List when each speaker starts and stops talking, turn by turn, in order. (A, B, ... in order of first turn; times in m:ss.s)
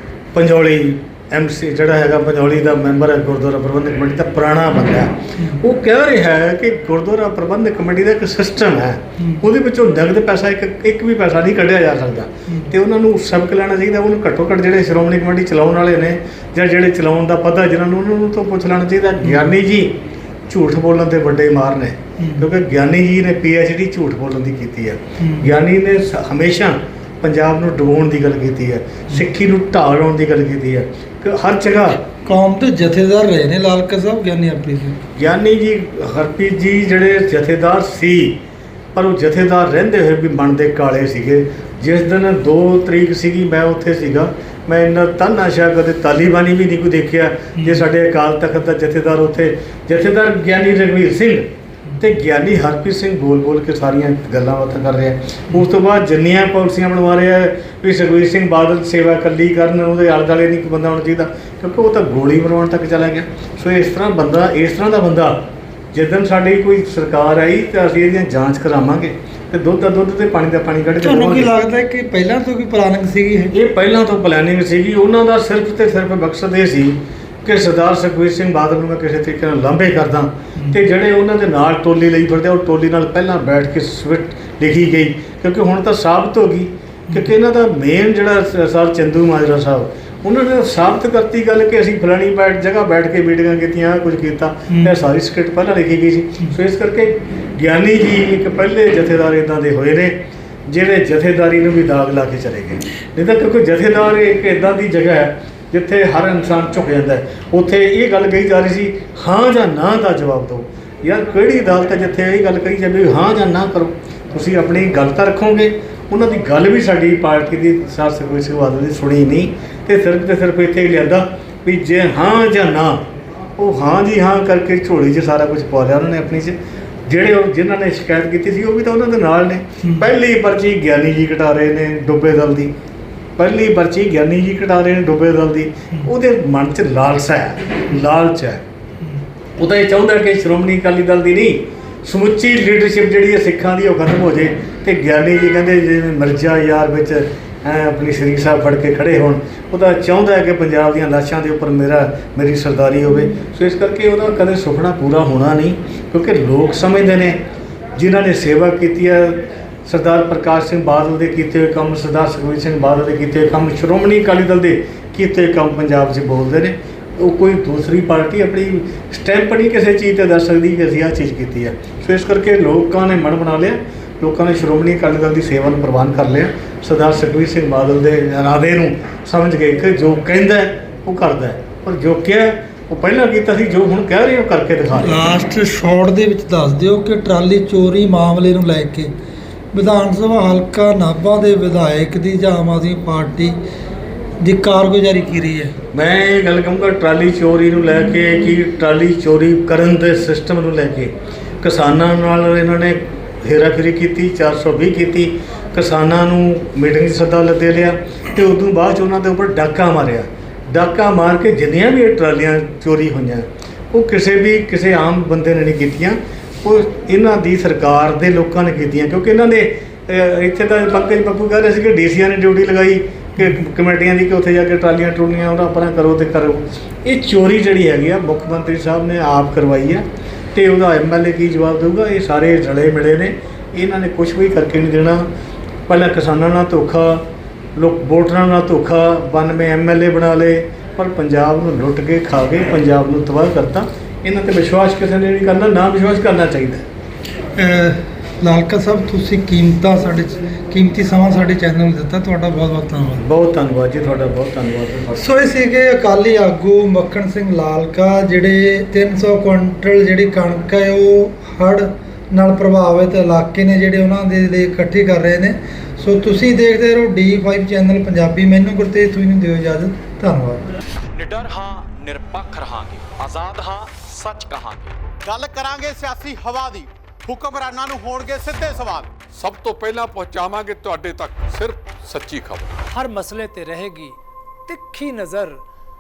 0:00.3-0:32.1 A
0:19.2-0:19.5 B
0:25.2-0:25.5 B
0:32.2-0:35.0 B
0:35.2-0:38.4 A
0:38.9-1:11.5 A
1:11.0-1:13.5 B
1:13.5-2:03.0 A
2:03.6-2:12.7 A
2:13.4-2:18.6 A
2:19.6-2:37.4 A
2:38.0-3:05.2 A
3:05.0-3:09.1 B
3:09.7-3:13.6 B
3:14.4-3:15.8 B
3:15.9-3:55.3 A
3:55.9-3:57.2 A
3:57.8-4:06.8 A
4:07.6-4:13.2 B
4:13.2-4:15.2 A
4:15.2-4:30.6 B
4:31.2-4:35.0 C
4:35.2-4:39.2 D
4:39.3-4:42.7 E
4:42.9-4:45.6 F